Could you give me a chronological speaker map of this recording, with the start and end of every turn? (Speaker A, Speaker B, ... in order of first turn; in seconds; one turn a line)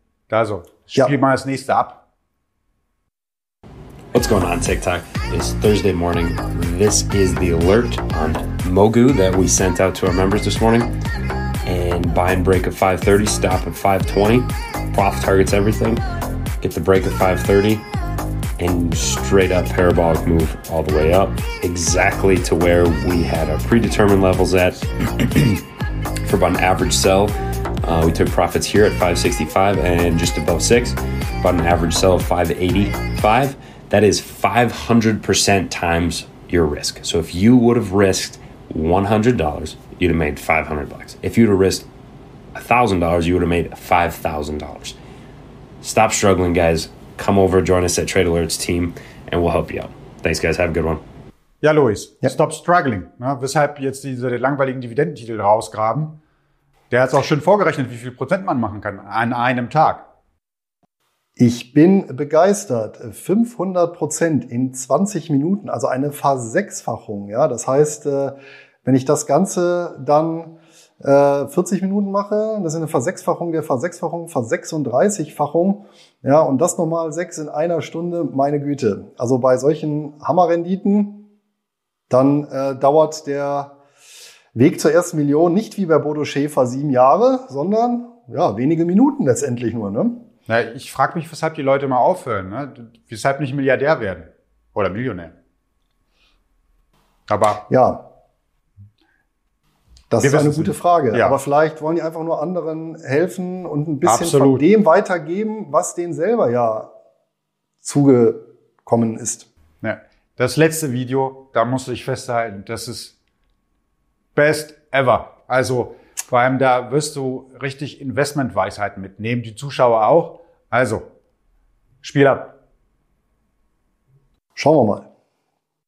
Speaker A: 0.3-2.0
Speaker B: 4.1-10.9
Speaker B: 11.7-16.0
Speaker B: 16.6-17.8
Speaker B: 18.6-25.6
Speaker B: 26.2-41.9
Speaker B: 42.5-45.0
Speaker B: 45.8-51.0
Speaker A: 51.6-56.2
Speaker A: 56.9-60.0
Speaker C: 61.4-81.3
Speaker C: 82.1-83.8
Speaker C: 84.5-90.2
Speaker A: 90.5-95.3
Speaker A: 97.3-97.6
Speaker C: 97.7-98.1
Speaker C: 100.1-106.9
Speaker A: 100.2-101.4
Speaker A: 104.0-104.6
Speaker C: 107.8-109.5
Speaker A: 109.8-113.2
Speaker A: 114.3-121.1
Speaker A: 122.0-122.6
Speaker C: 124.5-125.1